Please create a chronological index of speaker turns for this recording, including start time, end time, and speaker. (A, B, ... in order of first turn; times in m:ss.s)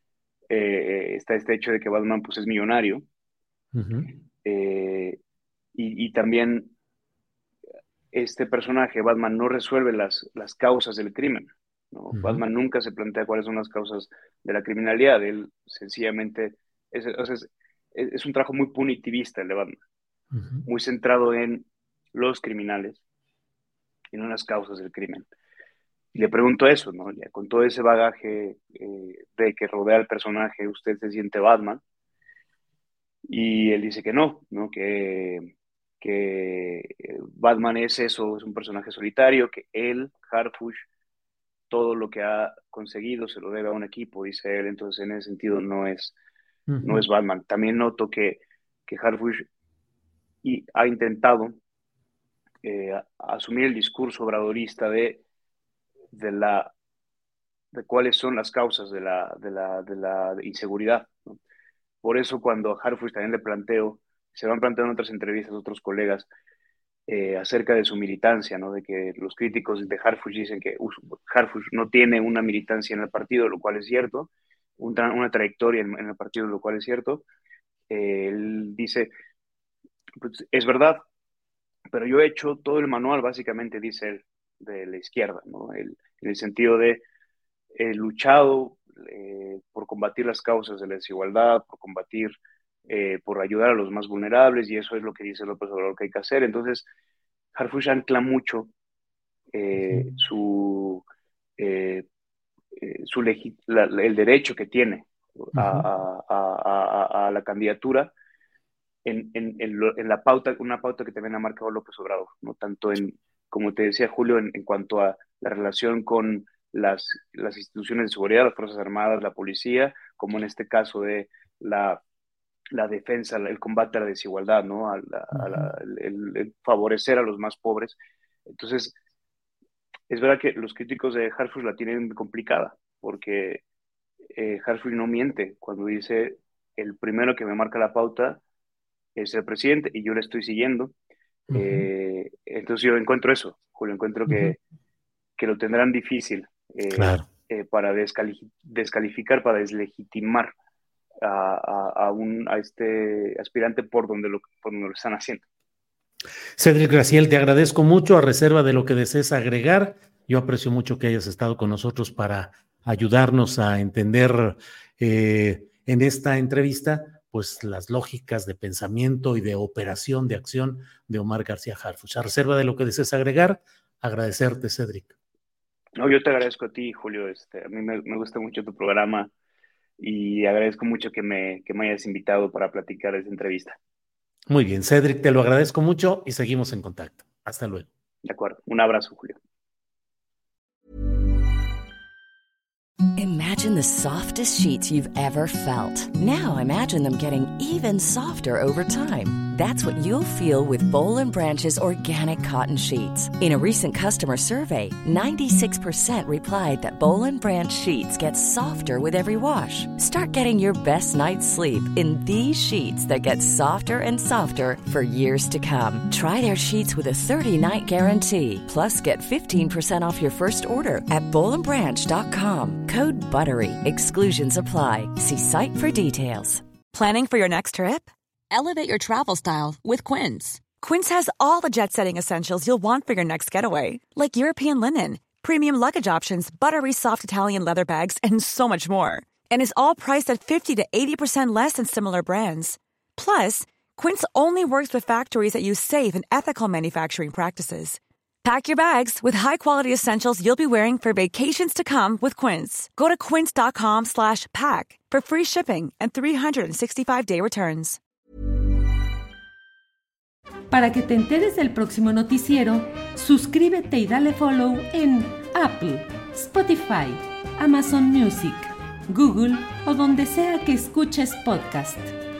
0:00.5-0:03.0 A
0:03.7-0:04.1 B
0:04.4-0:05.2 A
0:05.8-0:06.7 A
0:08.1-0:19.8 A
0:12.1-0:12.4 B
0:20.3-0:20.6 B
0:20.6-0:23.0 A
0:24.1-0:25.3 A
0:26.1-0:31.8 A
0:33.3-0:40.8 A
0:41.7-0:46.2 A
0:46.7-0:47.0 B
0:46.8-0:49.4 A
0:50.4-0:51.6 A
0:52.6-0:55.2 A
0:56.1-0:56.7 A
0:57.7-1:01.4 A
1:02.0-1:06.3 A
1:07.1-1:17.2 A
1:17.9-1:19.1 A
1:20.2-1:21.0 A
1:21.9-1:27.0 A
1:27.8-1:32.3 A
1:32.9-1:36.9 A
1:37.5-1:38.7 A
1:39.5-1:41.0 A
1:41.6-1:42.0 A
1:42.8-1:48.1 A
1:45.6-1:45.9 B
1:49.0-2:02.0 A
2:02.7-2:08.0 A
2:05.3-2:05.6 B
2:08.5-2:09.0 A
2:10.1-2:13.6 A
2:14.4-2:18.4 A
2:19.2-2:20.9 A
2:21.5-2:21.9 B
2:21.5-2:24.6 A
2:24.3-2:24.6 B
2:25.4-2:30.5 A
2:26.9-2:27.3 B
2:31.2-2:35.4 A
2:36.6-2:55.1 B
2:56.0-2:59.3 A
3:00.0-3:03.8 A
3:04.5-3:07.9 B
3:08.2-3:09.4 A
3:13.2-3:46.6 C
3:46.9-4:18.0 D
4:20.7-4:32.1 E